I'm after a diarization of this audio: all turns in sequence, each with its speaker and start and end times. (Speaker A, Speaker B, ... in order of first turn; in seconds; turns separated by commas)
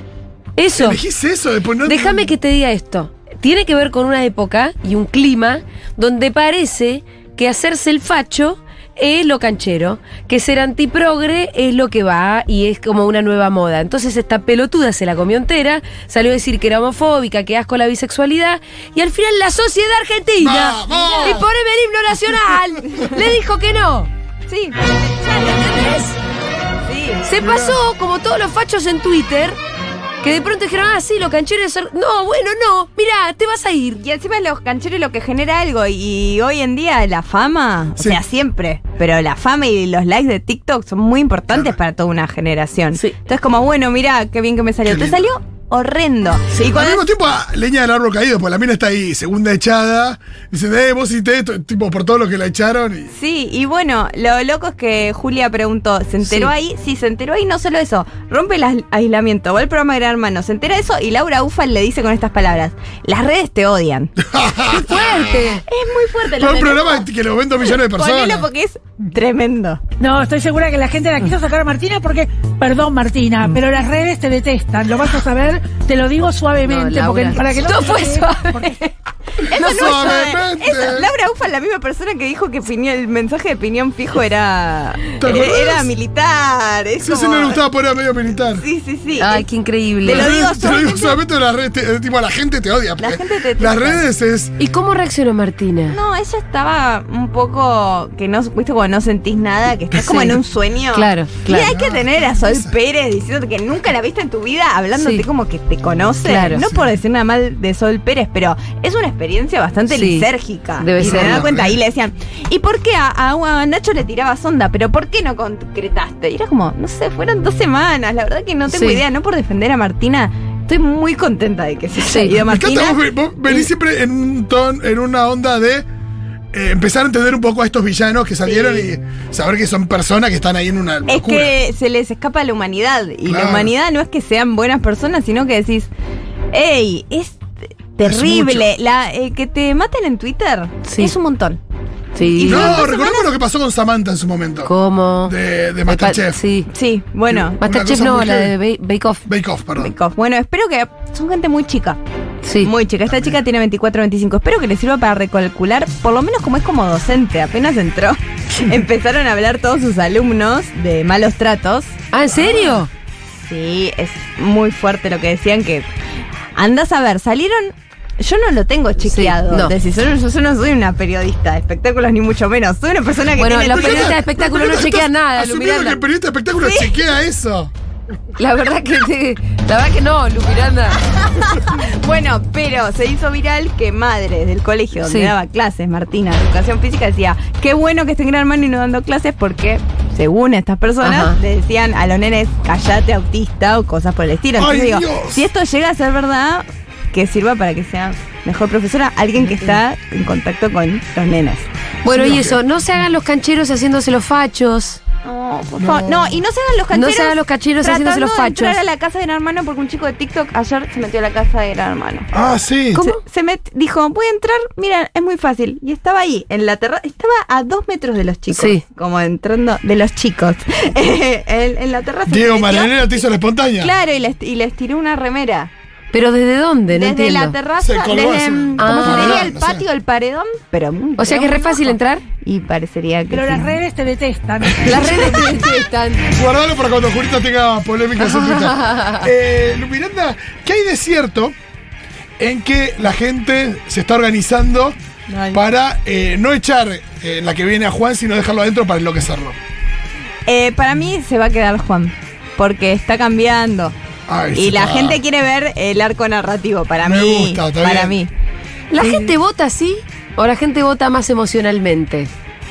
Speaker A: 0.6-1.0, Speaker B: 0.8-2.3, Speaker A: 1.8-24.1, Speaker B: 20.4-21.4, Speaker C: 24.5-25.9, Speaker A: 25.5-26.1, Speaker C: 26.9-27.2, Speaker A: 27.2-29.6, Speaker B: 27.4-27.8, Speaker A: 30.2-34.0, Speaker C: 34.0-47.0, Speaker B: 41.5-41.8, Speaker B: 44.9-45.2, Speaker B: 46.6-53.1, Speaker C: 53.1-64.2, Speaker A: 56.2-56.5, Speaker B: 64.3-65.3, Speaker A: 64.7-65.6, Speaker C: 65.7-67.1, Speaker B: 66.3-68.5, Speaker C: 67.7-69.8, Speaker D: 70.0-78.7, Speaker A: 76.6-78.9, Speaker C: 79.4-87.6, Speaker B: 79.5-81.1, Speaker A: 79.6-80.1, Speaker B: 85.2-85.9, Speaker B: 87.0-88.6, Speaker C: 88.5-89.4, Speaker A: 89.2-90.3, Speaker C: 90.0-91.2, Speaker B: 90.0-94.5, Speaker C: 93.0-94.0, Speaker A: 94.6-96.0, Speaker C: 95.9-123.7, Speaker A: 100.0-100.3, Speaker A: 100.9-101.7, Speaker B: 101.5-102.7, Speaker A: 105.0-105.2, Speaker A: 106.2-106.6, Speaker B: 106.6-106.8, Speaker A: 109.9-110.3, Speaker A: 110.8-111.5, Speaker B: 111.0-111.7, Speaker A: 118.7-119.0, Speaker A: 122.1-122.3, Speaker B: 122.3-125.9, Speaker B: 126.5-131.5, Speaker C: 128.4-128.8, Speaker C: 131.1-135.9, Speaker B: 133.2-133.7, Speaker C: 136.5-141.6, Speaker B: 138.0-138.7, Speaker A: 140.9-141.1, Speaker A: 142.2-142.8, Speaker C: 142.2-143.3, Speaker B: 142.5-144.7, Speaker A: 144.7-145.3, Speaker B: 145.2-146.4, Speaker A: 145.8-146.7, Speaker C: 146.7-147.6, Speaker B: 147.3-148.6, Speaker A: 147.6-149.2, Speaker B: 149.2-149.9, Speaker C: 149.8-152.0, Speaker A: 152.4-152.7, Speaker C: 152.6-162.8, Speaker B: 153.1-153.3, Speaker A: 162.1-162.9, Speaker C: 163.3-165.8, Speaker C: 166.6-174.2, Speaker A: 169.1-169.7, Speaker A: 173.4-176.0, Speaker B: 173.7-177.7, Speaker C: 176.6-177.0, Speaker A: 178.4-181.0, Speaker C: 181.2-201.7, Speaker A: 185.0-185.3, Speaker A: 191.0-191.3, Speaker B: 194.6-195.4, Speaker A: 202.0-205.0, Speaker B: 202.1-202.6, Speaker C: 205.2-212.3, Speaker B: 205.8-206.4, Speaker A: 206.9-208.8, Speaker B: 212.3-213.0, Speaker C: 212.9-223.2, Speaker A: 218.5-218.8, Speaker B: 222.3-223.9, Speaker C: 223.8-225.7, Speaker A: 226.1-227.5, Speaker C: 226.9-233.8, Speaker B: 227.8-229.8, Speaker A: 228.8-229.5, Speaker A: 231.2-232.2, Speaker D: 233.3-235.4, Speaker B: 234.6-241.5, Speaker A: 234.8-236.2, Speaker A: 238.2-239.3, Speaker B: 242.4-245.0, Speaker C: 245.3-245.6, Speaker B: 245.5-249.6, Speaker C: 250.5-253.9, Speaker B: 254.3-255.2, Speaker C: 254.6-258.3, Speaker B: 257.0-258.1, Speaker A: 258.9-262.3, Speaker C: 259.0-259.3